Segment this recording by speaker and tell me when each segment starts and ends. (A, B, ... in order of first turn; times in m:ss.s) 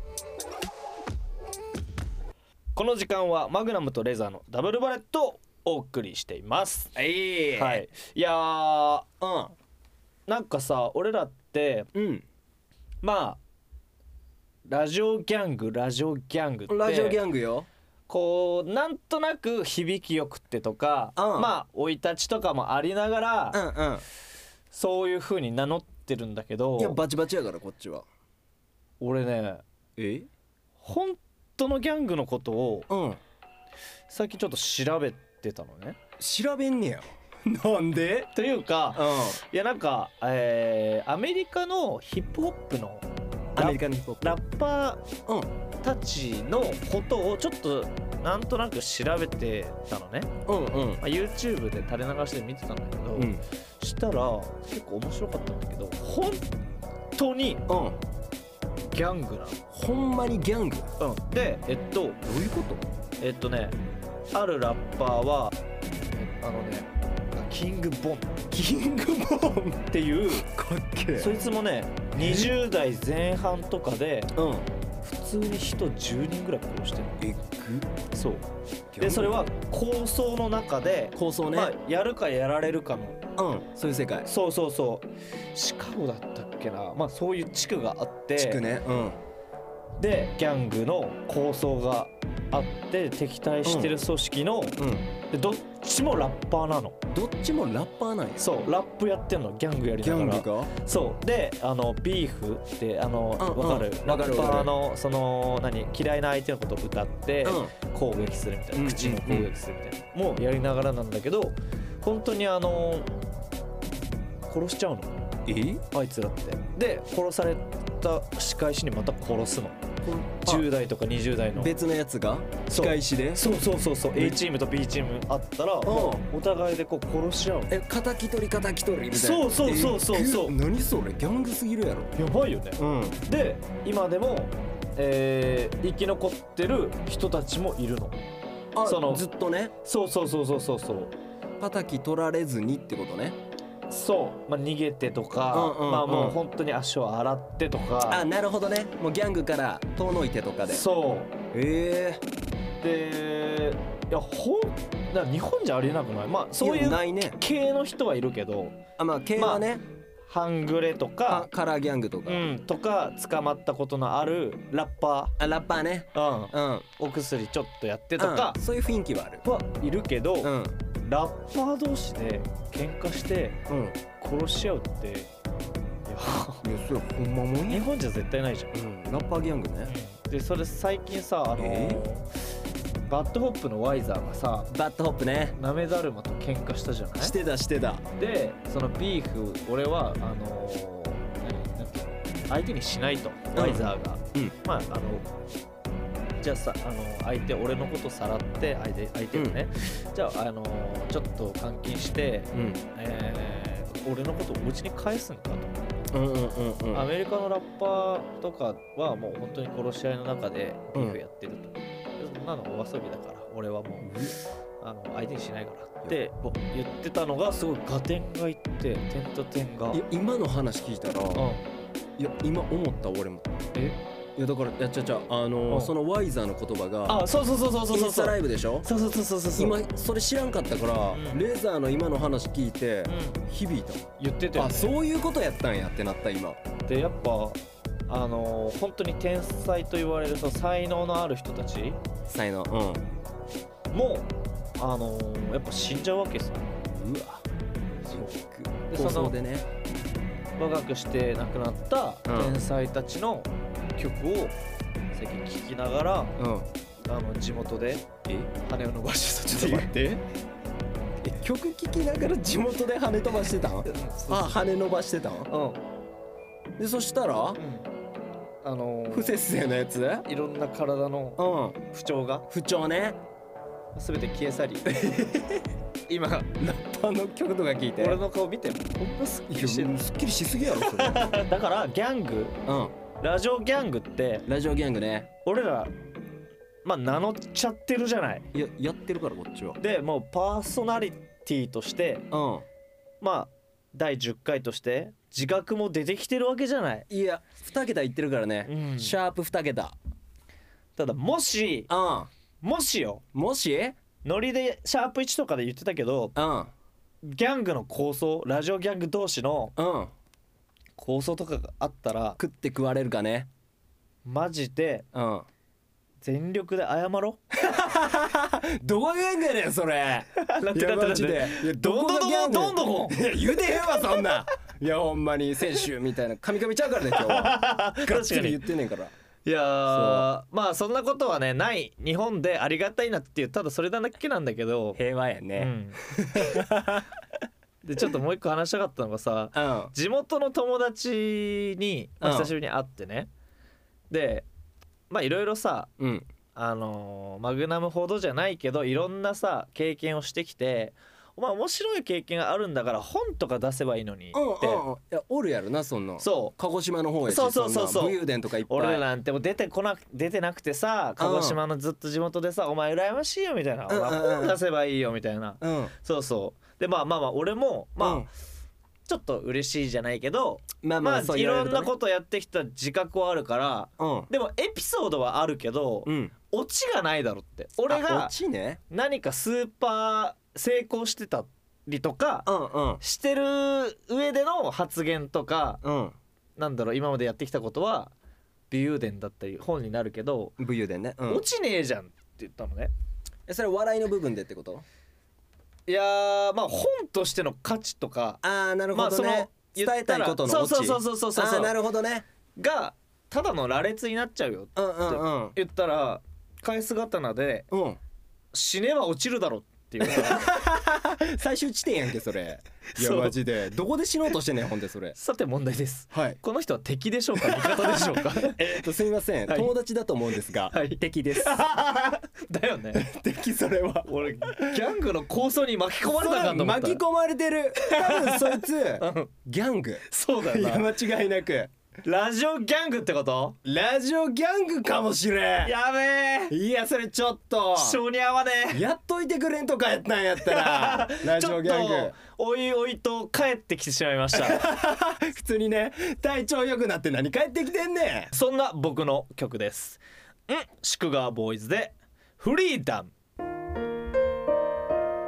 0:02.8-0:07.0 A
0:07.0-0:07.8 B
0:07.6-0:09.1 A
0:09.2-0:09.5 B
0:10.3-0:11.9 A
0:11.9-0:12.2 B
0:13.0-0:13.4 A
0:14.7-0:17.2 A
0:16.7-0:17.7 B
0:18.1-0:23.6 A
0:21.2-0:21.5 B
0:23.5-0:24.0 B
0:24.7-0:27.0 A
0:26.8-0:28.0 B
0:29.0-0:29.6 A
0:30.0-0:30.3 B
0:30.8-0:32.9 A
0:32.9-0:33.2 B
0:34.1-0:36.0 A
0:36.2-0:38.3 B
0:38.3-0:43.0 A
0:39.0-0:39.4 B
0:43.6-0:44.4 B
0:43.6-0:45.0 A
0:45.8-0:50.3 A
0:50.5-0:51.0 B
0:51.0-0:56.5 A
0:53.1-0:53.4 B
0:57.2-0:57.6 A
0:57.7-0:58.0 B
0:58.9-0:59.6 A
0:59.7-1:00.9 B
1:01.0-1:02.2 A
1:02.2-1:02.9 B
1:03.2-1:03.8 A
1:04.3-1:05.6 A
1:06.1-1:08.4 A
1:08.5-1:11.3 B
1:09.9-1:10.5 A
1:11.2-1:14.3 A
1:12.2-1:12.5 B
1:14.4-1:14.7 B
1:15.0-1:17.2 A
1:17.2-1:17.9 B
1:18.1-1:18.4 A
1:18.9-1:19.4 B
1:19.0-1:23.2 A
1:21.2-1:21.7 B
1:23.4-1:24.3 B
1:24.3-1:28.6 A
1:28.4-1:29.2 B
1:30.0-1:34.8 A
1:33.6-1:34.0 B
1:34.8-1:35.1 B
1:35.3-1:37.0 A
1:37.1-1:38.5 B
1:38.4-1:53.1 A
1:40.0-1:40.7 B
1:43.4-1:44.7 B
1:47.4-1:47.7 B
1:48.8-1:49.5 B
1:54.5-1:55.2 A
1:55.5-1:55.8 B
1:55.9-1:59.8 A
2:00.0-2:00.7 B
2:00.4-2:01.7 A
2:01.6-2:03.6 B
2:02.7-2:07.7 A
2:04.1-2:04.4 B
2:05.8-2:06.2 B
2:07.7-2:12.1 B
2:09.1-2:10.6 A
2:12.2-2:18.2 A
2:12.8-2:13.2 B
2:18.8-2:19.7 B
2:18.8-2:19.2 A
2:19.8-2:21.1 A
2:21.6-2:23.4 B
2:23.9-2:28.2 A
2:25.5-2:26.4 B
2:28.1-2:30.8 B
2:30.7-2:31.3 A
2:31.5-2:32.2 B
2:32.8-2:38.8 A
2:36.6-2:37.4 B
2:39.0-2:39.8 B
2:39.4-2:39.7 A
2:40.3-2:41.5 A
2:41.3-2:42.5 B
2:42.3-2:45.3 A
2:45.4-2:46.9 B
2:46.1-2:48.6 A
2:48.2-2:49.4 B
2:49.4-2:50.5 A
2:50.4-2:50.7 B
2:51.0-2:53.6 A
2:53.7-2:54.0 B
2:54.2-2:55.3 A
2:56.1-2:56.6 A
2:56.6-2:57.9 B
2:57.7-2:58.7 A
2:58.7-2:59.9 B
2:59.9-3:02.3 A
3:01.6-3:02.0 B
3:03.1-3:04.7 A
3:04.7-3:05.6 B
3:05.6-3:07.4 A
3:07.2-3:08.0 B
3:08.2-3:15.2 A
3:13.6-3:14.6 B
3:16.4-3:25.7 A
3:22.5-3:22.8 B
3:26.1-3:27.1 B
3:26.9-3:40.0 A
3:30.9-3:31.2 B
3:34.0-3:34.4 B
3:39.9-3:41.5 B
3:41.4-3:41.6 A
3:42.2-3:43.5 B
3:44.4-3:47.3 B
3:45.7-3:45.9 A
3:47.1-3:49.8 A
3:47.9-3:48.9 B
3:49.6-3:56.6 B
3:51.1-3:51.4 A
3:53.1-3:53.4 A
3:54.2-3:55.0 A
3:56.9-4:02.0 A
4:02.3-4:03.0 B
4:03.9-4:06.7 A
4:06.9-4:07.4 B
4:08.1-4:08.3 A
4:08.1-4:09.7 B
4:08.9-4:09.4 A
4:10.6-4:14.6 A
4:12.3-4:12.6 B
4:15.1-4:16.4 A
4:16.4-4:16.7 B
4:17.0-4:18.1 A
4:18.6-4:19.9 A
4:19.5-4:20.2 B
4:21.3-4:25.5 B
4:23.8-4:24.7 A
4:25.5-4:25.8 A
4:26.8-4:27.6 B
4:27.6-4:27.9 A
4:28.6-4:29.4 A
4:29.1-4:30.3 B
4:30.3-4:32.5 A
4:31.4-4:31.8 B
4:32.5-4:33.2 B
4:34.0-4:34.9 A
4:34.9-4:35.6 B
4:36.1-4:36.5 A
4:36.6-4:38.2 B
4:38.0-4:40.0 A
4:39.5-4:41.5 B
4:40.8-4:42.6 A
4:42.7-4:43.0 B
4:43.2-4:44.5 A
4:44.5-4:45.3 B
4:45.4-4:45.9 A
4:46.8-4:48.5 A
4:48.5-4:49.8 B
4:49.8-4:52.3 A
4:52.3-4:52.6 B
4:53.2-4:57.0 A
4:57.1-5:00.0 B
4:58.7-4:59.2 A
5:01.0-5:01.9 A
5:01.9-5:02.3 B
5:02.6-5:03.2 A
5:03.3-5:04.0 B
5:04.2-5:06.4 A
5:06.4-5:06.7 B
5:07.2-5:09.7 A
5:09.8-5:10.1 B
5:11.0-5:12.4 A
5:12.4-5:13.5 B
5:14.2-5:15.1 A
5:15.1-5:15.5 B
5:16.2-5:17.4 A
5:17.5-5:29.1 B
5:20.4-5:23.4 A
5:27.1-5:28.6 A
5:29.4-5:35.0 A
5:29.9-5:30.3 B
5:35.0-5:37.0 B
5:35.6-5:36.6 A
5:37.8-5:43.3 A
5:39.5-5:39.9 B
5:42.2-5:42.5 B
5:44.1-5:44.5 A
5:45.1-5:45.9 A
5:46.0-5:46.3 B
5:46.6-5:54.8 A
5:54.3-5:59.0 B
5:56.2-5:56.5 A
5:57.3-6:08.3 A
6:01.2-6:01.6 B
6:03.9-6:04.6 B
6:05.6-6:05.9 B
6:08.0-6:08.3 B
6:09.1-6:18.3 A
6:10.8-6:11.9 B
6:14.0-6:14.3 B
6:16.1-6:16.3 B
6:17.9-6:18.8 B
6:18.9-6:22.5 A
6:22.5-6:23.0 B
6:23.0-6:25.8 A
6:25.8-6:26.2 B
6:26.6-6:28.1 A
6:28.7-6:30.5 A
6:30.6-6:31.4 B
6:31.3-6:32.9 A
6:33.5-6:34.8 B
6:35.9-6:38.4 A
6:38.4-6:42.3 B
6:38.9-6:41.8 A
6:42.6-6:47.7 A
6:44.8-6:45.6 B
6:47.7-6:48.0 B
6:48.5-6:50.5 A
6:50.0-6:55.2 B
6:53.0-6:53.4 A
6:55.2-6:58.8 A
6:56.1-6:56.4 B
6:57.4-7:01.6 B
7:00.7-7:03.0 A
7:02.9-7:04.9 B
7:04.1-7:07.0 A
7:06.0-7:11.7 B
7:07.8-7:09.3 A
7:10.1-7:10.9 A
7:12.0-7:13.6 A
7:13.6-7:15.7 B
7:15.6-7:16.6 A
7:16.5-7:18.0 B
7:17.8-7:18.8 A
7:18.7-7:22.2 B
7:20.4-7:24.6 A
7:24.3-7:28.3 B
7:28.3-7:33.1 A